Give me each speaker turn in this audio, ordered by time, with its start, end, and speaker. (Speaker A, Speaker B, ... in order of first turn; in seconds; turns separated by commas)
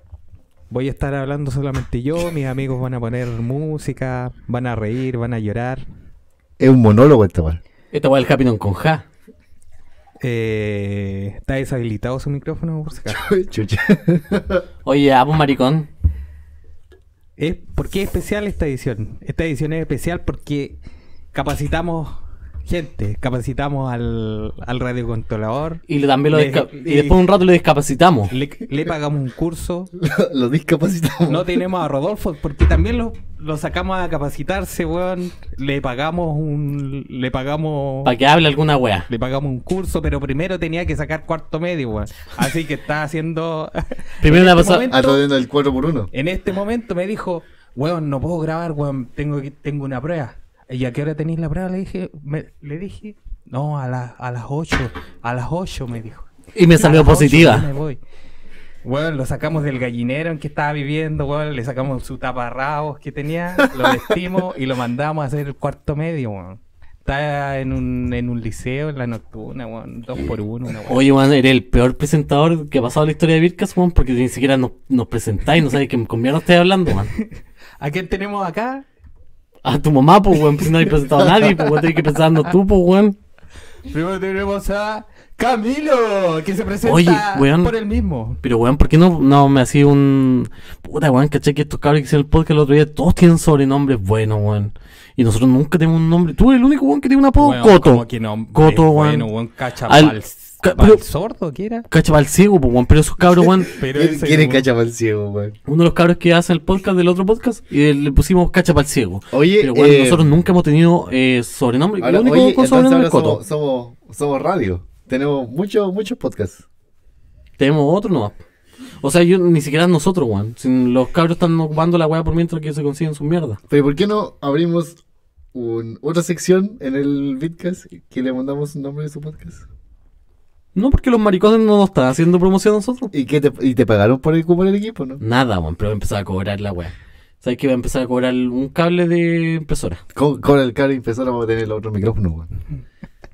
Speaker A: 0.7-5.9, Speaker B: 6.6-7.6, Speaker C: 7.9-9.1, Speaker A: 10.2-13.2, Speaker B: 13.1-14.7, Speaker C: 14.8-15.9, Speaker A: 17.4-20.8, Speaker A: 21.3-27.2, Speaker C: 25.9-28.3, Speaker A: 28.3-29.9, Speaker B: 30.0-31.6, Speaker A: 31.3-38.1, Speaker C: 38.0-39.1, Speaker A: 39.1-45.2, Speaker C: 44.2-44.9, Speaker B: 44.7-46.1, Speaker A: 46.1-58.0, Speaker C: 56.5-57.7, Speaker A: 58.8-71.0, Speaker C: 70.9-77.1, Speaker A: 77.8-78.8, Speaker C: 79.7-83.2, Speaker A: 83.9-88.4, Speaker C: 86.8-87.8, Speaker C: 88.4-99.3, Speaker A: 97.4-101.9, Speaker C: 99.9-101.0, Speaker C: 101.9-103.7, Speaker B: 103.4-105.6, Speaker A: 103.8-104.7, Speaker C: 105.7-113.4, Speaker B: 109.3-110.3, Speaker B: 112.0-116.6, Speaker C: 117.6-118.4, Speaker C: 119.0-123.6, Speaker B: 123.7-125.0, Speaker B: 125.5-129.6, Speaker C: 130.8-133.1, Speaker B: 133.1-135.2, Speaker C: 135.2-140.0, Speaker B: 140.2-142.5